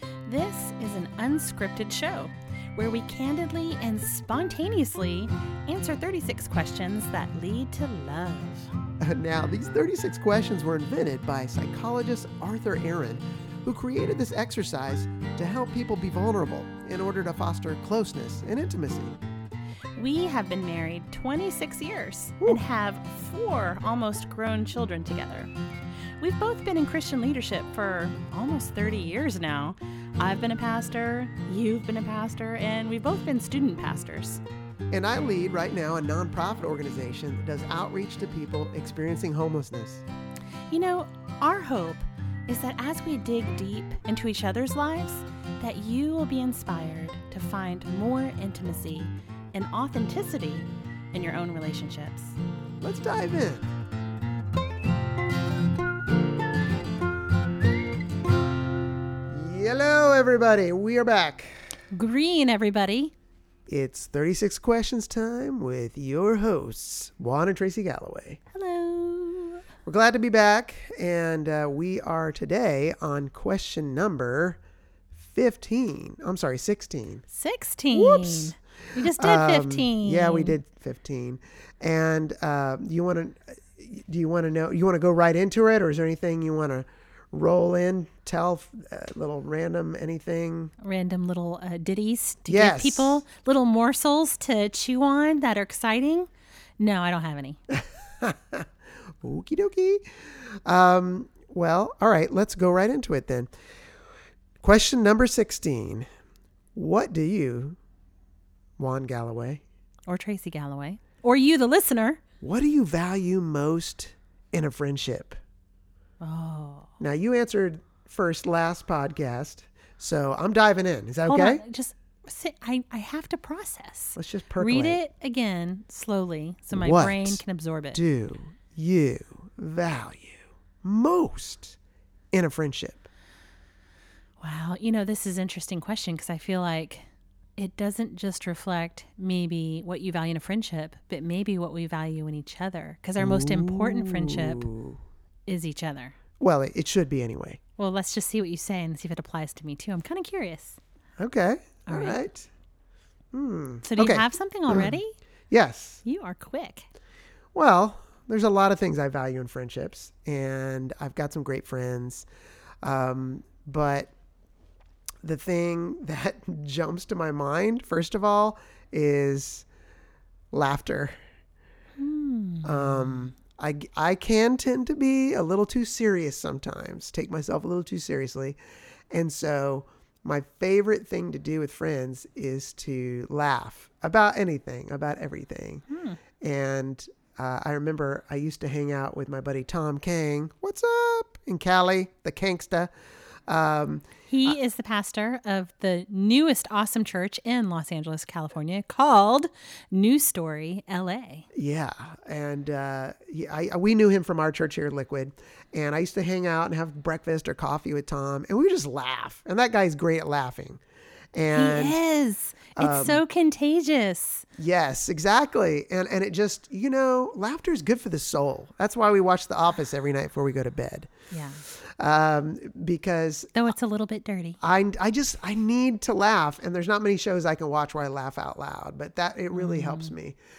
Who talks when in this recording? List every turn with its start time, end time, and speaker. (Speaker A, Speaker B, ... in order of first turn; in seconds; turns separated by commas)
Speaker A: 0.2-8.7, Speaker B: 9.0-19.2, Speaker A: 19.9-25.5, Speaker A: 26.2-34.4, Speaker B: 34.9-40.0, Speaker A: 40.7-52.4, Speaker B: 52.8-53.7, Speaker B: 59.3-61.5, Speaker A: 61.9-63.1, Speaker B: 63.7-68.4, Speaker A: 68.5-69.6, Speaker B: 69.8-74.6, Speaker B: 75.2-77.2, Speaker A: 77.3-80.5, Speaker B: 77.9-90.7, Speaker A: 90.8-97.6, Speaker B: 92.5-93.2, Speaker B: 97.7-98.7, Speaker B: 99.2-103.5, Speaker B: 104.6-106.0, Speaker B: 106.7-107.8, Speaker B: 108.8-109.6, Speaker A: 110.1-112.2, Speaker B: 112.4-115.4, Speaker A: 116.2-116.9, Speaker B: 117.0-121.6, Speaker A: 121.3-128.0, Speaker B: 124.2-125.0, Speaker B: 126.7-127.4, Speaker B: 127.9-131.8, Speaker B: 132.3-133.1, Speaker A: 134.4-144.7, Speaker B: 143.2-145.0, Speaker A: 145.5-146.1, Speaker B: 146.4-147.6, Speaker A: 147.8-150.8, Speaker B: 151.2-152.5, Speaker A: 151.9-152.2, Speaker B: 153.3-155.0, Speaker A: 153.8-155.1, Speaker B: 155.5-156.0, Speaker A: 156.0-156.9, Speaker B: 157.5-162.2, Speaker B: 162.8-164.1, Speaker B: 165.2-169.7, Speaker B: 170.5-171.1, Speaker A: 172.0-173.2, Speaker B: 172.6-178.6, Speaker B: 179.1-185.8, Speaker A: 185.9-186.2, Speaker B: 186.4-192.9, Speaker B: 193.5-194.1, Speaker A: 194.3-201.4, Speaker B: 201.5-210.8, Speaker B: 211.3-212.0, Speaker A: 211.5-214.4, Speaker B: 212.8-213.2, Speaker B: 214.6-221.1, Speaker A: 221.3-221.6, Speaker B: 221.7-223.5, Speaker A: 223.5-224.6, Speaker B: 224.6-230.4, Speaker A: 229.5-230.1